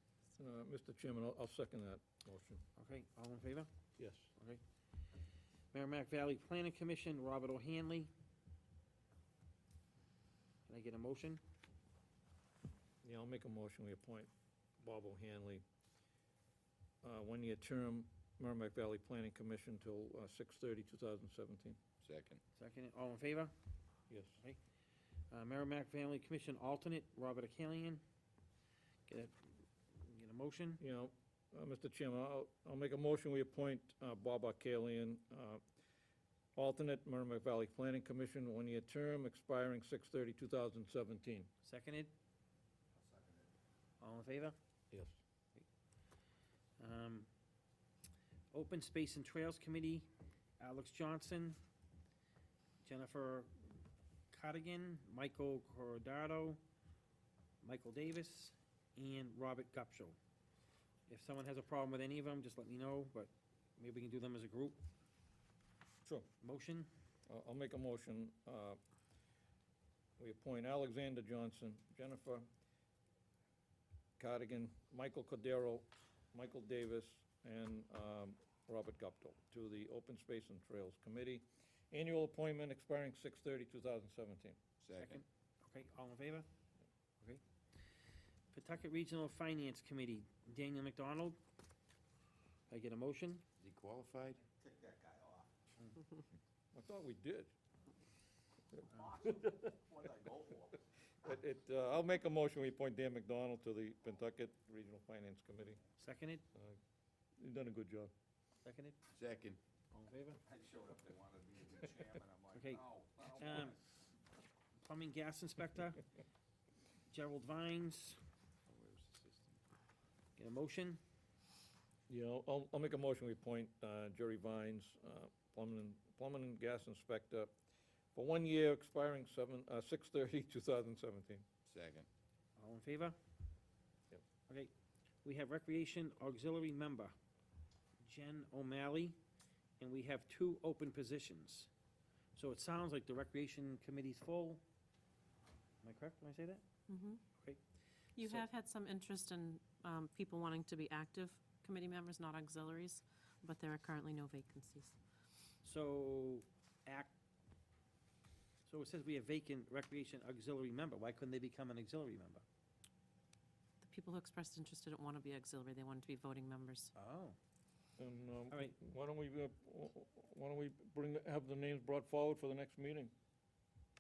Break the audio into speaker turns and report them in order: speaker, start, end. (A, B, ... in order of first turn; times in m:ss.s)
0:00.4-0:02.6 A
0:02.8-0:03.7 B
0:04.0-0:04.3 A
0:05.7-0:08.1 B
0:10.7-0:11.4 B
0:13.0-0:15.6 A
0:17.0-0:21.8 A
0:22.0-0:22.4 C
0:22.6-0:23.5 B
0:24.1-0:24.4 A
0:25.3-0:28.0 B
0:29.1-0:30.8 B
0:30.8-0:35.6 A
0:36.6-0:41.5 A
0:41.6-0:42.1 B
0:43.0-0:43.4 D
0:44.0-0:44.6 B
0:44.9-0:45.2 A
0:46.8-0:47.3 B
0:48.5-0:51.6 B
0:52.8-0:53.8 B
0:54.3-0:56.6 B
0:57.6-1:00.2 B
1:01.1-1:04.8 B
1:06.4-1:06.9 B
1:07.3-1:08.8 A
1:10.2-1:12.4 A
1:14.2-1:24.6 A
1:24.8-1:25.2 C
1:25.0-1:26.5 B
1:28.5-1:31.4 B
1:32.7-1:33.4 B
1:33.6-1:34.4 C
1:34.5-1:35.5 D
1:36.7-1:37.5 A
1:38.8-1:39.7 A
1:38.9-1:40.8 D
1:41.2-1:45.8 A
1:46.0-1:46.4 B
1:47.4-1:48.1 A
1:48.6-1:49.0 B
1:49.1-1:49.6 C
1:49.9-1:50.4 B
1:50.4-1:53.8 D
1:52.5-1:53.8 B
1:54.8-1:56.0 B
1:57.1-1:58.2 B
1:58.7-1:59.6 C
2:00.4-2:01.0 B
2:02.1-2:07.5 A
2:08.1-2:11.4 A
2:11.6-2:12.1 C
2:12.6-2:13.2 B
2:15.2-2:17.1 B
2:18.0-2:19.2 B
2:19.8-2:21.7 B
2:22.4-2:24.6 B
2:25.8-2:26.6 B
2:26.9-2:27.2 E
2:27.3-2:27.6 B
2:28.2-2:34.9 E
2:28.2-2:28.4 B
2:35.6-2:37.1 B
2:38.6-2:42.4 B
2:43.8-2:46.9 E
2:46.9-2:47.3 B
2:48.0-2:53.1 A